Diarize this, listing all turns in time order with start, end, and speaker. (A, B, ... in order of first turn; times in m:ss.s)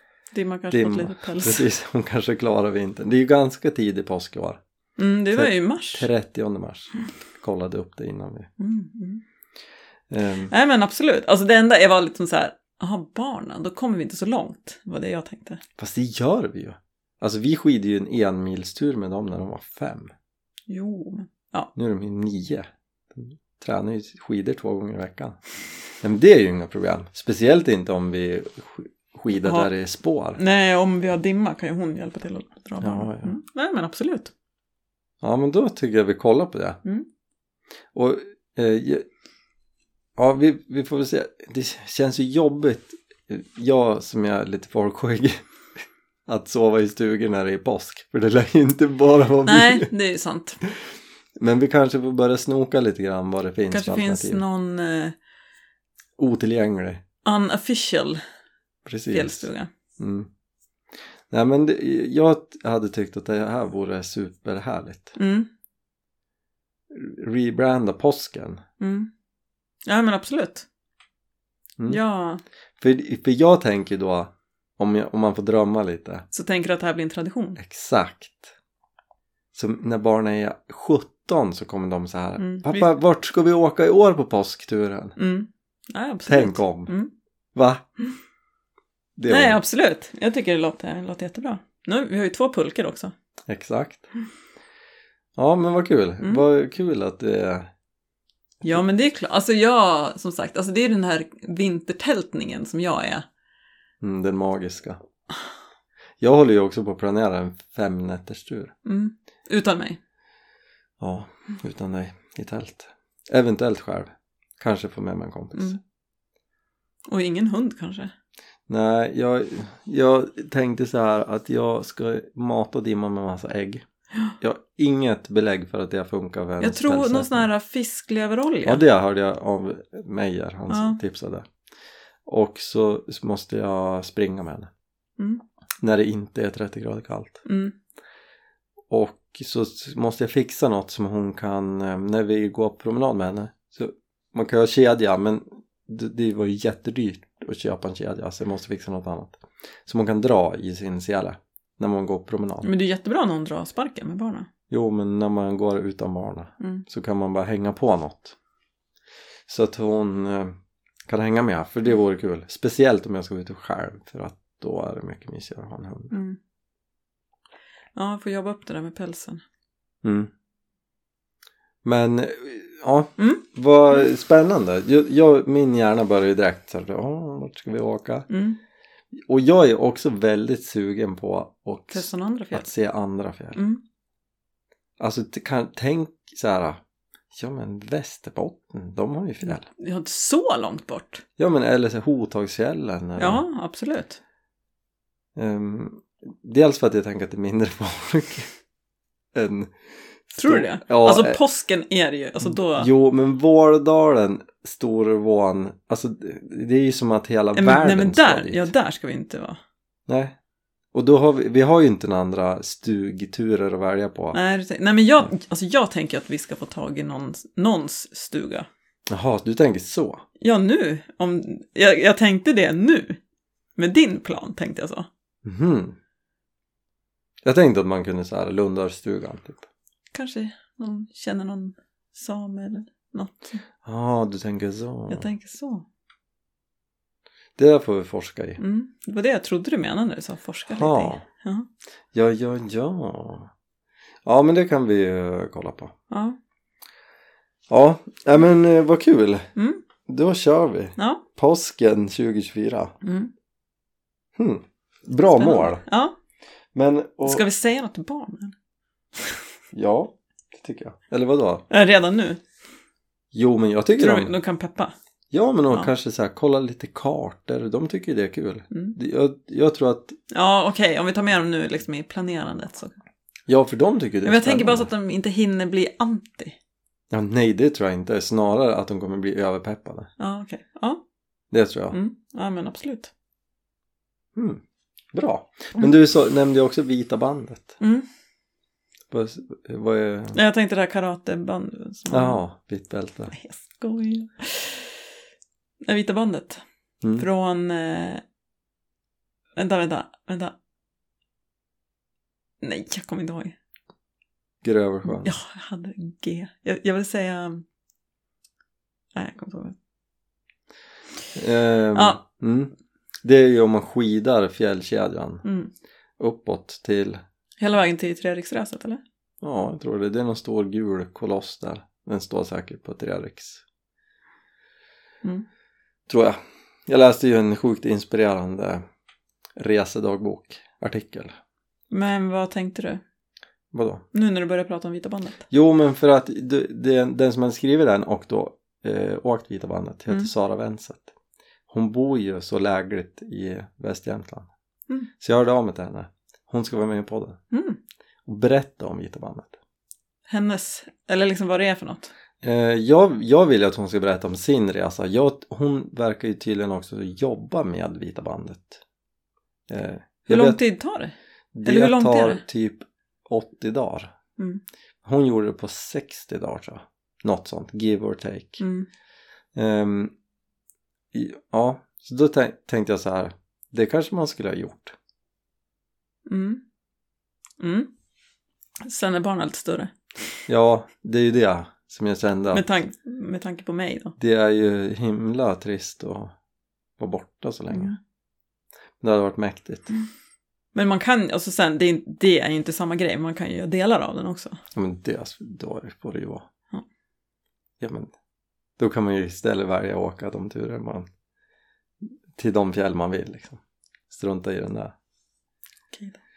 0:00.3-0:01.7 A
0:00.7-0:04.6 B
0:05.0-0:06.1 A
0:05.3-0:08.5 B
0:08.6-0:09.2 A
0:10.1-0:10.5 B
0:10.5-0:15.6 A
0:15.8-0:20.1 B
0:20.7-0:21.7 A
0:21.8-0:25.4 B
0:26.0-0:30.4 B
0:29.4-0:29.7 A
0:30.4-0:34.3 A
0:32.8-0:33.4 B
0:35.2-0:36.8 B
0:37.9-0:39.1 B
0:40.2-0:45.4 B
0:46.3-0:49.9 B
0:49.5-0:50.6 A
0:51.4-0:54.4 B
0:53.7-0:55.2 A
0:56.2-0:57.0 B
0:57.2-0:58.2 A
0:58.9-0:59.5 B
0:59.1-0:59.7 A
1:00.0-1:00.3 B
1:01.3-1:05.2 B
1:05.2-1:05.5 A
1:06.9-1:08.6 B
1:08.8-1:09.1 A
1:09.9-1:10.7 A
1:11.9-1:12.4 A
1:12.8-1:16.2 B
1:16.3-1:17.6 A
1:17.6-1:18.5 B
1:19.5-1:25.2 B
1:22.4-1:23.0 A
1:25.2-1:27.1 A
1:26.3-1:26.9 B
1:27.6-1:27.8 B
1:29.2-1:29.6 B
1:29.3-1:33.1 A
1:33.5-1:34.1 B
1:35.4-1:37.7 B
1:38.6-1:43.2 A
1:44.0-1:45.0 B
1:46.2-1:48.7 B
1:48.8-1:50.0 A
1:51.0-1:55.8 B
1:57.1-1:58.1 A
1:58.7-2:03.8 B
2:04.4-2:07.5 B
2:06.6-2:08.8 A
2:08.6-2:11.5 B
2:10.7-2:11.0 A
2:12.3-2:14.7 B
2:15.8-2:17.4 B
2:17.5-2:17.8 A
2:18.9-2:32.7 B
2:32.6-2:34.5 A
2:34.7-2:38.4 B
2:39.5-2:40.6 B
2:41.1-2:46.1 B
2:46.1-2:46.4 A
2:48.0-2:49.4 A
2:50.0-2:50.3 B
2:51.8-2:58.3 B
2:58.3-2:58.6 A
2:59.2-3:03.6 B
3:01.9-3:02.7 A
3:03.6-3:03.8 A
3:05.0-3:06.8 B
3:07.3-3:09.7 B
3:09.4-3:11.2 A
3:11.4-3:13.4 B
3:13.2-3:14.2 A
3:15.4-3:18.5 B
3:19.3-3:19.7 B
3:20.3-3:21.4 B
3:20.4-3:22.9 A
3:22.4-3:28.7 B
3:27.6-3:29.6 A
3:30.1-3:30.4 B
3:30.9-3:34.4 B
3:34.3-3:38.7 A
3:39.1-3:40.2 B
3:40.4-3:43.2 A
3:43.8-3:45.1 A
3:45.4-3:46.0 B
3:47.4-3:49.7 B
3:50.1-3:53.6 A
3:53.8-3:55.3 B
3:55.1-3:55.8 A
3:57.6-3:58.6 B
3:58.6-4:01.7 A
4:00.7-4:01.2 B
4:02.1-4:03.5 B
4:04.2-4:05.9 B
4:06.1-4:06.4 A
4:07.7-4:09.5 B
4:09.6-4:09.8 A
4:10.1-4:13.0 B
4:11.0-4:11.2 A
4:13.0-4:13.3 A
4:14.4-4:15.8 B
4:15.3-4:16.2 A
4:16.8-4:17.4 B
4:17.2-4:18.6 A
4:19.7-4:21.6 B
4:21.7-4:22.4 A
4:23.3-4:24.3 B
4:24.0-4:24.9 A
4:25.3-4:30.2 B
4:30.3-4:32.9 A
4:33.5-4:34.9 B
4:34.2-4:36.6 A
4:37.1-4:40.1 B
4:40.2-4:41.0 A
4:41.5-4:42.0 B
4:41.9-4:43.1 A
4:44.4-4:44.6 B
4:45.1-4:47.8 B
4:47.8-4:48.1 A
4:49.1-4:50.4 B
4:50.3-4:52.4 A
4:52.1-4:53.3 B
4:53.3-4:55.0 A
4:55.8-4:56.6 A
4:57.0-4:57.3 B
4:57.2-4:58.2 A
4:59.6-5:00.5 A
5:02.6-5:03.6 A
5:04.6-5:05.3 B
5:05.0-5:07.6 A
5:09.1-5:09.8 A
5:11.4-5:12.7 B
5:11.9-5:12.2 A
5:13.2-5:15.4 B
5:15.4-5:15.7 A
5:16.2-5:17.2 B
5:17.6-5:19.0 A
5:19.4-5:23.6 B
5:26.1-5:28.8 B
5:29.6-5:31.4 B
5:31.9-5:33.0 A
5:33.7-5:34.0 B
5:34.1-5:35.4 A
5:35.5-5:41.1 B
5:41.7-5:44.5 B
5:45.2-5:47.4 B
5:47.5-5:47.8 A
5:48.3-5:49.6 B
5:50.3-5:52.1 A
5:52.4-5:58.8 B
5:59.7-6:00.6 B
6:00.3-6:01.1 A
6:01.6-6:04.1 B
6:01.6-6:02.4 A
6:05.0-6:08.6 B
6:08.6-6:08.9 A
6:09.6-6:10.1 B
6:11.1-6:15.0 B
6:16.3-6:16.6 A
6:17.6-6:17.9 A
6:18.8-6:20.4 A
6:20.5-6:22.7 B
6:22.5-6:24.2 A
6:24.2-6:26.3 B
6:27.0-6:28.0 B
6:27.7-6:28.0 A
6:29.0-6:29.9 B
6:30.7-6:34.6 A
6:34.7-6:36.5 B
6:37.8-6:38.1 B
6:38.8-6:41.1 B
6:42.4-6:44.9 B
6:45.9-6:46.2 A